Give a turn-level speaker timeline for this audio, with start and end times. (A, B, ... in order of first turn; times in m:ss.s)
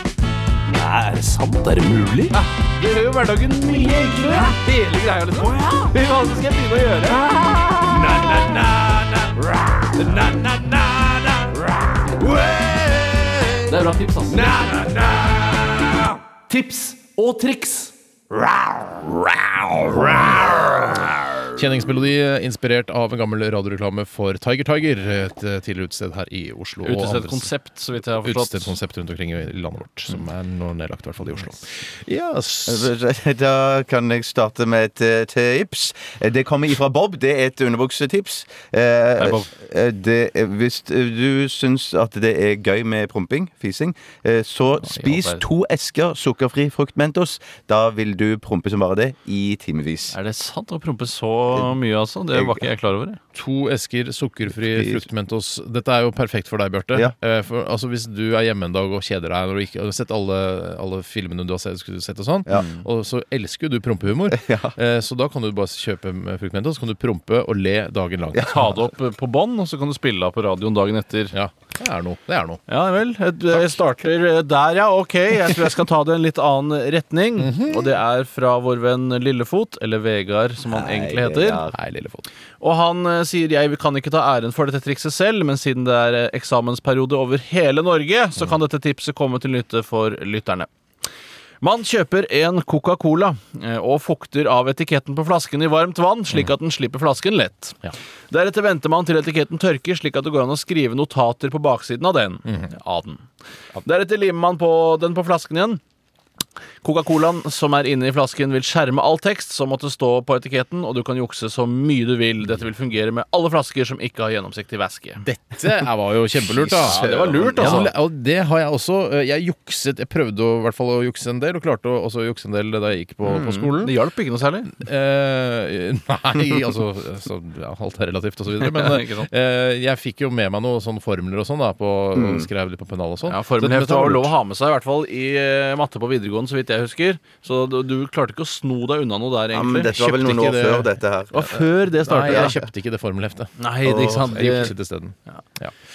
0:00.7-0:02.3 A
0:02.3-0:11.6 B
0:12.6-0:13.0 A
0:13.6-0:15.1 B
0:16.5-0:17.9 B
0:19.0-0:21.0 B
0:21.6-0:27.5 C
0:26.8-0:28.8 B
0:28.2-0:32.9 C
0:32.7-0:50.2 D
0:39.2-0:39.5 B
0:44.8-0:45.4 B
0:50.1-0:53.2 B
0:51.5-0:51.8 D
0:52.3-0:52.6 D
0:53.3-1:08.8 C
0:54.5-0:55.0 D
1:02.5-1:02.8 B
1:04.3-1:04.8 D
1:08.3-1:08.6 D
1:08.4-1:11.4 B
1:11.3-1:12.6 C
1:12.7-1:21.6 B
1:13.5-1:13.9 C
1:17.4-1:17.9 C
1:20.7-1:21.8 D
1:21.7-1:22.3 C
1:22.6-1:30.7 B
1:31.6-1:43.2 B
1:42.4-1:42.7 C
1:43.8-1:45.8 B
1:46.8-1:55.3 B
1:55.2-2:04.0 C
1:56.6-1:57.9 B
1:56.8-1:57.8 D
2:03.2-2:04.7 B
2:04.7-2:14.3 C
2:08.6-2:09.3 B
2:12.2-2:12.5 D
2:13.3-2:20.0 B
2:19.5-2:21.6 D
2:19.9-2:20.9 C
2:21.3-2:22.7 B
2:21.9-2:23.5 C
2:22.3-2:22.6 D
2:23.6-2:24.7 B
2:23.8-2:24.3 D
2:24.0-2:25.7 C